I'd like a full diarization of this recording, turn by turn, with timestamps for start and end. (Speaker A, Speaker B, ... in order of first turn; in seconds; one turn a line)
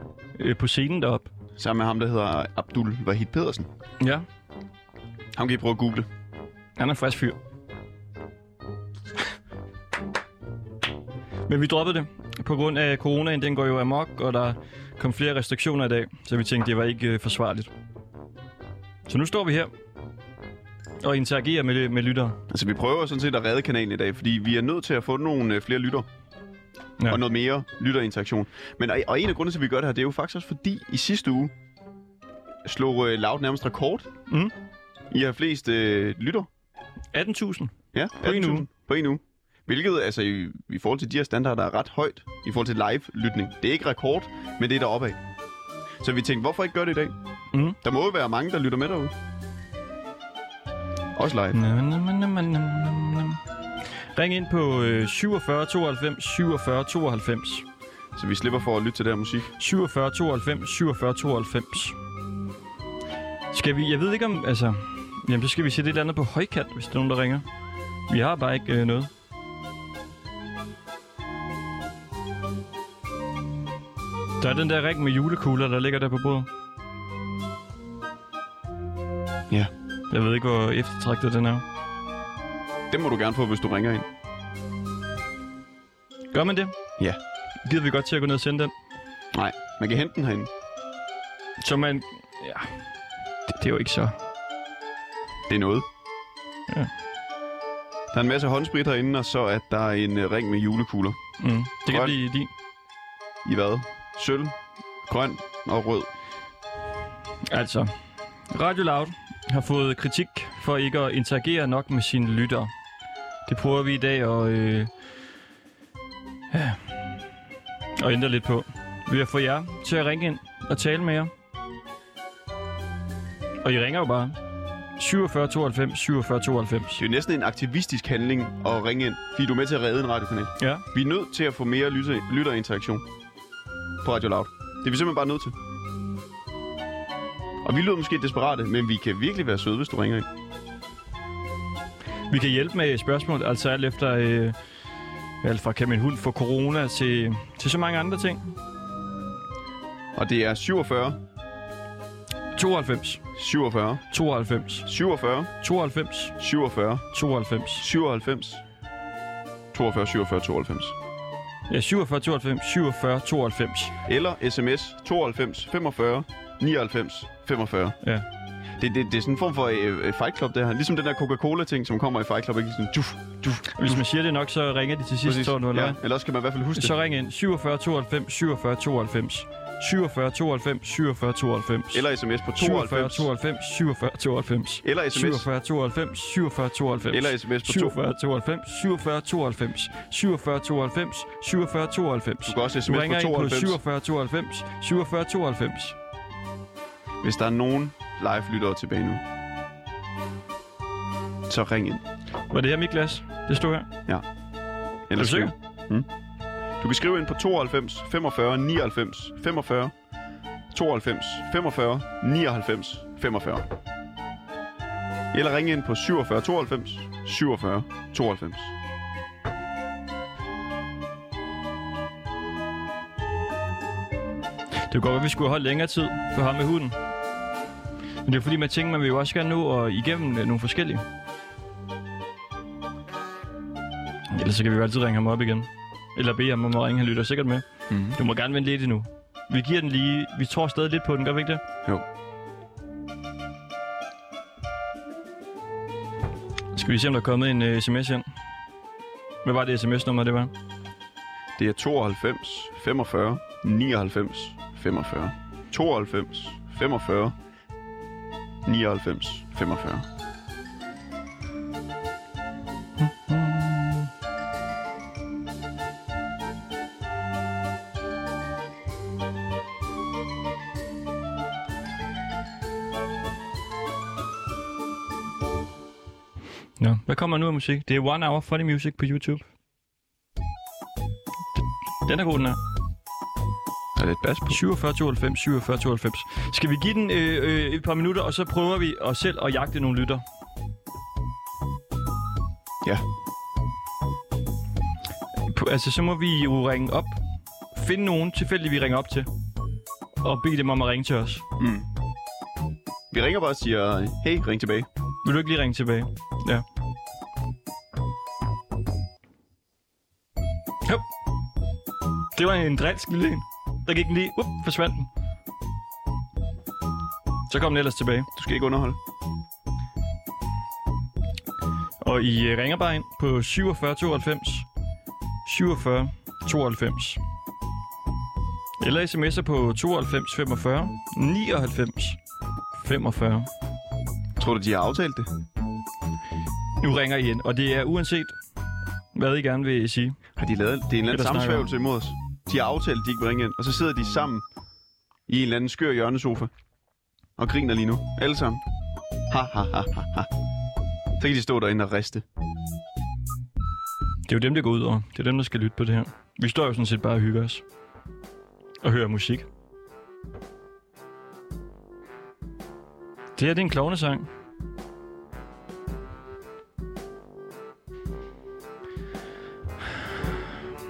Speaker A: 0.4-1.3
Speaker B: 1.6-3.7
Speaker A: 4.0-4.2
Speaker B: 5.3-6.1
Speaker A: 6.8-7.3
Speaker A: 11.5-17.7
Speaker A: 19.1-19.7
Speaker A: 21.0-22.4
Speaker B: 22.5-26.1
Speaker B: 27.1-31.5
Speaker B: 32.6-34.1
Speaker B: 35.1-36.5
Speaker A: 37.1-38.7
Speaker B: 37.9-45.2
Speaker B: 46.0-47.2
Speaker B: 47.8-49.1
Speaker B: 51.1-51.6
Speaker A: 51.5-53.4
Speaker A: 54.1-57.6
Speaker B: 58.1-59.5
Speaker A: 59.6-62.0
Speaker A: 63.5-67.4
Speaker A: 68.1-69.1
Speaker A: 74.4-76.5
Speaker A: 80.1-81.6
Speaker B: 82.9-84.1
Speaker A: 86.3-86.7
Speaker A: 87.6-88.7
Speaker B: 89.3-90.5
Speaker A: 91.6-92.7
Speaker A: 93.5-94.1
Speaker B: 95.5-95.9
Speaker B: 98.1-101.2
Speaker A: 101.4-102.5
Speaker B: 101.8-102.1
Speaker B: 103.4-106.1
Speaker A: 107.5-107.9
Speaker A: 108.5-112.7
Speaker A: 113.5-114.9
Speaker A: 116.5-116.8
Speaker A: 118.0-121.3
Speaker A: 123.6-124.4
Speaker A: 125.0-127.0
Speaker B: 127.0-133.1
Speaker A: 130.6-130.8
Speaker B: 134.0-135.5
Speaker B: 137.6-140.3
Speaker A: 142.3-144.6
Speaker A: 145.4-148.5
Speaker B: 150.1-151.2
Speaker A: 152.5-153.2
Speaker B: 153.3-154.1
Speaker A: 154.1-154.9
Speaker B: 154.8-155.5
Speaker A: 155.6-156.4
Speaker B: 156.4-157.1
Speaker A: 157.1-157.8
Speaker B: 157.8-158.6
Speaker B: 159.7-160.9
Speaker A: 161.7-163.9
Speaker B: 164.1-168.0
Speaker B: 168.8-174.0
Speaker A: 173.7-176.0
Speaker B: 175.2-176.9
Speaker A: 176.7-182.0
Speaker B: 181.9-183.3
Speaker A: 182.6-195.9
Speaker B: 184.8-185.5
Speaker B: 187.1-188.0
Speaker B: 192.4-193.8
Speaker B: 197.2-199.2
Speaker B: 201.5-202.0
Speaker A: 202.5-203.9
Speaker B: 205.1-206.1
Speaker A: 205.2-205.5
Speaker B: 206.8-209.9
Speaker B: 210.7-213.7
Speaker B: 215.3-218.7
Speaker A: 224.9-226.9
Speaker A: 228.2-231.0
Speaker A: 234.3-241.6
Speaker B: 237.9-238.2
Speaker A: 246.7-248.2
Speaker A: 249.4-250.5
Speaker B: 251.6-257.3
Speaker B: 258.6-260.1
Speaker A: 263.0-264.1
Speaker A: 276.8-279.4
Speaker A: 282.1-282.6
Speaker B: 283.9-284.6
Speaker A: 284.5-290.2
Speaker A: 295.5-297.2
Speaker A: 297.7-299.3
Speaker A: 300.2-301.4
Speaker B: 301.6-301.9
Speaker B: 303.1-304.9
Speaker A: 305.2-306.6
Speaker A: 312.3-315.1
Speaker A: 317.5-318.3
Speaker B: 318.3-319.0
Speaker A: 322.0-324.7
Speaker A: 325.4-327.2
Speaker A: 328.8-332.2
Speaker A: 332.7-333.5
Speaker B: 334.4-335.3
Speaker A: 336.8-338.4
Speaker A: 339.1-340.2
Speaker B: 340.4-344.4
Speaker A: 341.1-341.7
Speaker B: 345.3-346.5
Speaker B: 347.4-348.6
Speaker B: 349.3-350.3
Speaker B: 351.2-352.2
Speaker A: 354.3-357.6
Speaker A: 358.8-359.5
Speaker A: 363.4-364.3